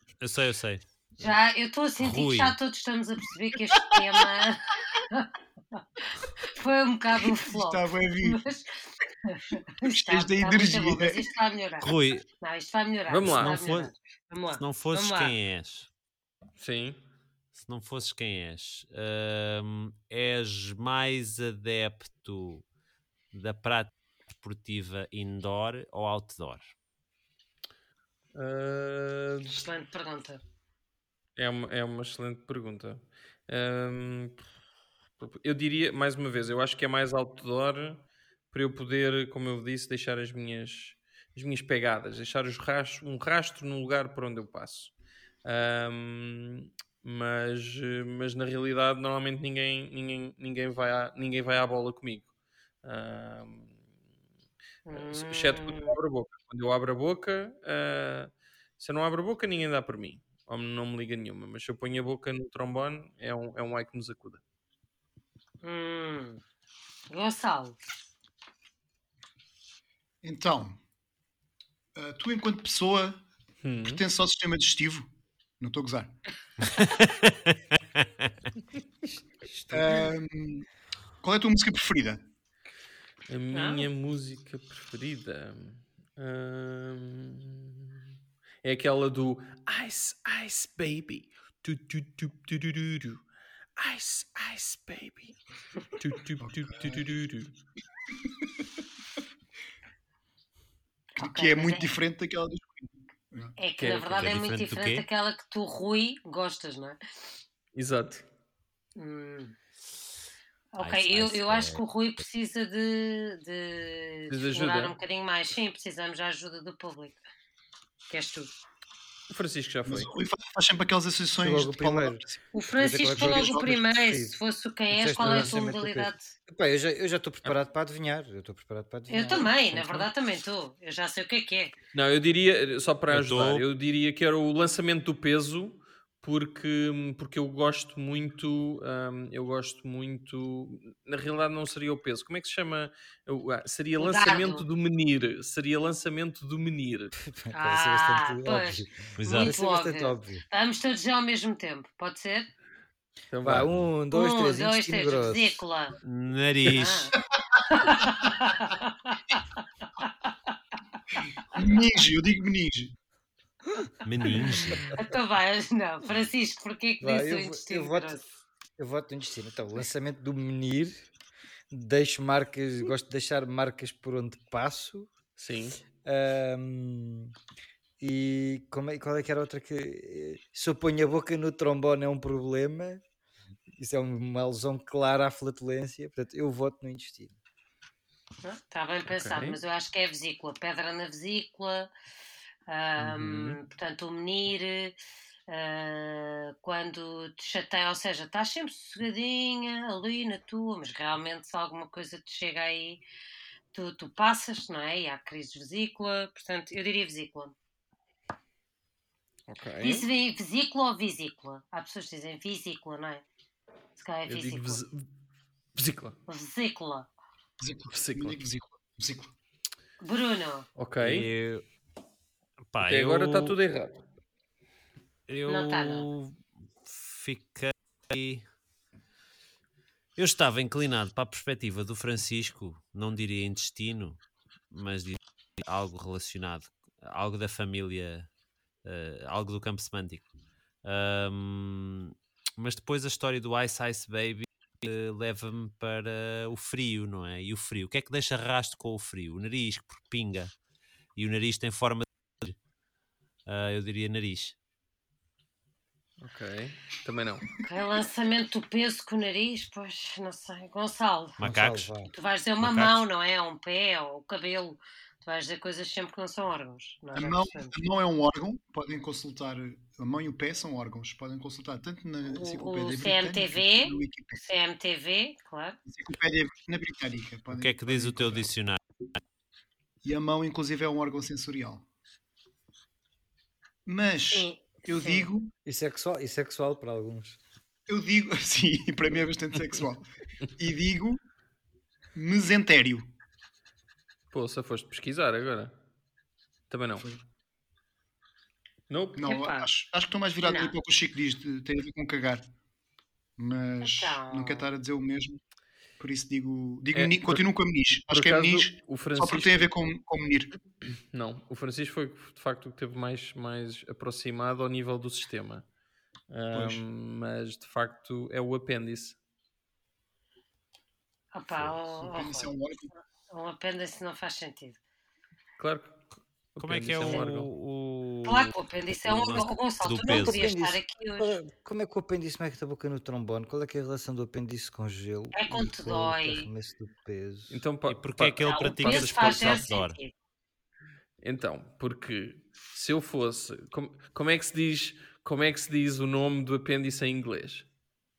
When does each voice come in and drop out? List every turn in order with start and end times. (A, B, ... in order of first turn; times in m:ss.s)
0:00.2-0:01.3 A
0:01.2-0:15.4 B
0:02.0-0:02.6 A
0:03.8-0:04.2 C
0:07.2-0:08.4 C
0:09.8-0:11.3 C
0:11.8-0:12.3 A
0:13.1-0:13.6 D
0:13.2-0:13.9 A
0:14.6-0:15.9 A
0:16.6-0:17.0 D
0:17.6-0:22.6 A
0:23.3-0:26.7 A
0:28.4-0:29.7 D
0:29.5-0:30.4 B
0:31.4-0:34.4 D
0:35.2-0:44.9 D
0:45.4-0:52.3 D
0:52.8-0:53.8 D
0:54.9-0:56.0 B
0:54.9-1:04.4 D
1:05.6-1:06.4 B
1:07.1-1:07.8 B
1:10.2-1:10.8 C
1:11.9-1:13.2 C
1:13.6-1:14.0 D
1:13.8-1:16.2 C
1:16.6-1:18.1 A
1:19.5-1:20.1 D
1:19.7-1:20.7 C
1:21.2-1:22.2 C
1:23.3-1:28.1 D
1:23.5-1:23.9 B
1:28.6-1:33.2 D
1:33.8-1:35.4 D
1:36.0-1:37.5 D
1:36.4-1:37.0 C
1:41.2-1:42.0 B
1:41.2-1:43.6 C
1:43.6-1:47.0 B
1:43.8-1:44.3 D
1:44.2-1:45.1 A
1:47.8-1:48.2 D
1:49.0-1:49.6 B
1:50.7-1:57.2 B
1:50.8-1:51.8 A
1:54.3-1:55.0 D
1:58.1-1:58.5 B
1:59.3-2:00.1 D
1:59.8-2:02.4 C
2:01.4-2:02.2 E
2:02.5-2:06.4 B
2:02.8-2:04.4 E
2:03.1-2:03.8 C
2:04.9-2:10.1 E
2:05.2-2:05.5 D
2:09.1-2:11.7 B
2:11.9-2:27.1 D
2:13.1-2:13.6 A
2:24.0-2:24.6 B
2:27.1-2:30.4 E
2:27.5-2:32.5 B
2:29.2-2:29.6 A
2:33.3-2:33.8 D
2:33.4-2:35.6 E
2:34.1-2:36.0 B
2:36.0-2:37.1 A
2:36.7-2:37.2 B
2:37.6-2:37.8 C
2:37.7-2:40.3 B
2:41.5-2:42.9 C
2:44.0-2:45.0 A
2:44.8-2:48.2 B
2:47.0-2:48.2 E
2:48.8-2:51.0 E
2:51.7-2:55.1 E
2:55.4-2:55.8 D
2:56.0-2:57.4 E
2:58.0-3:03.0 E
3:03.8-3:07.4 E
3:08.4-3:11.9 B
3:09.1-3:09.6 D
3:12.7-3:23.0 B
3:13.0-3:13.6 D
3:23.7-3:27.5 B
3:29.5-3:30.1 D
3:29.8-3:33.2 B
3:34.0-3:34.8 B
3:34.3-3:35.0 D
3:35.8-3:36.2 D
3:36.3-3:37.1 B
3:37.6-3:39.3 C
3:37.9-3:38.4 D
3:40.0-3:40.7 B
3:40.8-3:41.3 D
3:41.0-3:41.6 A
3:42.7-3:43.6 A
3:42.8-3:44.0 D
3:45.3-3:48.4 A
3:45.5-3:46.1 B
3:50.2-3:58.3 A
3:58.8-4:00.2 A
4:00.8-4:10.5 A
4:11.2-4:12.6 A
4:13.5-4:14.6 A
4:16.2-4:17.5 D
4:17.6-4:21.4 B
4:21.4-4:21.9 A
4:21.4-4:22.1 E
4:22.1-4:27.8 B
4:22.6-4:23.0 A
4:27.1-4:34.4 C
4:32.2-4:35.8 B
4:35.9-4:38.5 C
4:37.5-4:38.8 A
4:40.0-4:41.9 C
4:43.9-4:45.5 C
4:44.3-4:45.3 B
4:45.7-4:47.4 E
4:47.9-4:51.2 C
4:52.2-4:53.1 C
4:54.3-4:55.7 D
4:56.7-4:57.1 D
4:58.9-4:59.2 D
4:59.2-5:02.5 C
4:59.2-4:59.7 B
5:00.4-5:00.8 B
5:03.4-5:05.4 C
5:03.8-5:04.7 B
5:06.0-5:10.5 C
5:06.9-5:07.4 D
5:08.1-5:09.7 D
5:11.1-5:15.6 D
5:16.3-5:19.2 D
5:16.5-5:16.8 C
5:21.3-5:22.5 B
5:22.0-5:22.9 C
5:23.3-5:24.8 B
5:25.6-5:27.5 D
5:26.6-5:30.5 A
5:28.2-5:31.4 B
5:30.0-5:37.6 E
5:35.3-5:36.5 B
5:37.5-5:39.7 D
5:37.9-5:40.0 A
5:38.4-5:40.1 B
5:41.2-5:47.6 D